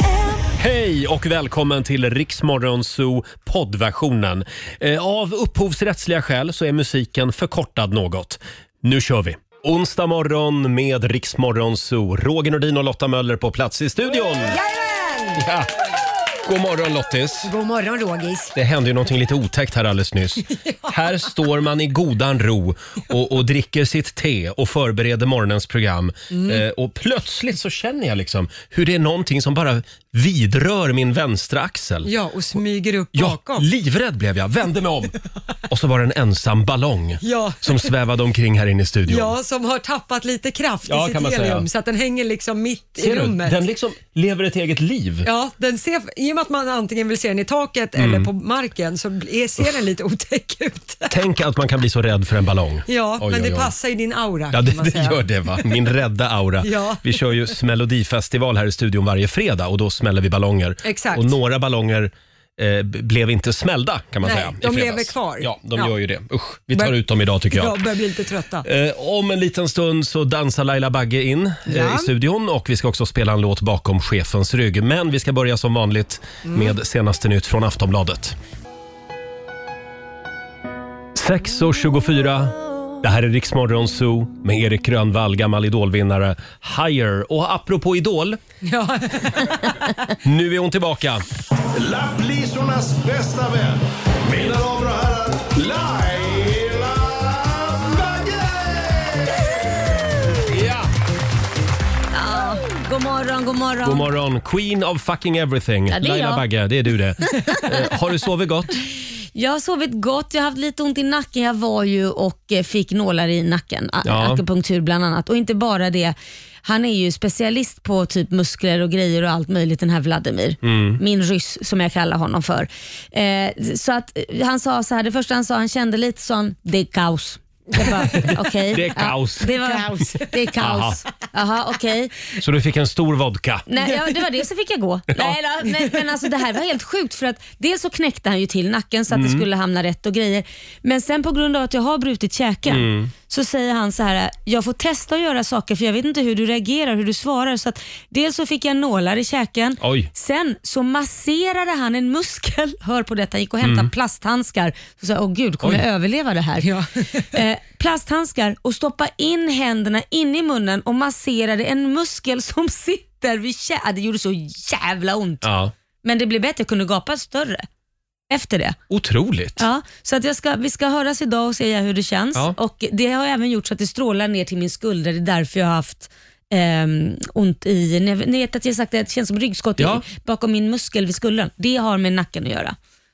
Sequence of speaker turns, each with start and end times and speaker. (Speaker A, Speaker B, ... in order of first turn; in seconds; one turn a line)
Speaker A: 0.6-14.6
Speaker B: 14.4-15.4
Speaker A: 15.4-15.7
Speaker A: 16.4-17.5
Speaker B: 17.4-18.5
Speaker A: 18.5-32.1
Speaker B: 26.3-26.6
Speaker B: 32.0-33.7
Speaker A: 33.1-35.1
Speaker A: 35.7-39.3
Speaker B: 37.2-37.9
Speaker B: 39.1-43.6
Speaker A: 40.8-41.6
Speaker A: 43.0-45.3
Speaker B: 45.2-51.2
Speaker A: 48.0-48.3
Speaker A: 51.1-53.7
Speaker B: 52.9-55.6
Speaker A: 54.5-67.8
Speaker B: 56.6-57.1
Speaker B: 60.8-61.3
Speaker B: 64.2-65.9
Speaker B: 67.5-68.7
Speaker A: 68.6-78.3
Speaker B: 71.7-72.1
Speaker B: 76.5-76.7
Speaker A: 81.1-88.4
Speaker B: 88.6-89.5
Speaker A: 90.2-91.2
Speaker C: 91.8-98.2
Speaker A: 100.5-100.8
Speaker D: 102.1-104.1
Speaker A: 103.8-108.8
Speaker D: 105.9-106.4
Speaker D: 107.3-107.6
Speaker D: 109.3-132.1
Speaker A: 114.0-114.4
Speaker A: 120.6-121.0
Speaker B: 127.8-128.3
Speaker A: 127.8-129.5
Speaker B: 129.6-130.2
Speaker A: 130.6-131.0
Speaker A: 132.4-133.7
Speaker D: 133.7-156.7
Speaker A: 139.1-139.4
Speaker A: 142.7-143.1
Speaker A: 149.8-150.1
Speaker A: 153.6-153.9
Speaker B: 156.6-156.9
Speaker D: 157.3-165.5
Speaker A: 165.4-165.7
Speaker D: 166.0-167.7
Speaker D: 168.3-168.8
Speaker A: 168.9-169.6
Speaker D: 169.6-182.8
Speaker A: 179.8-180.0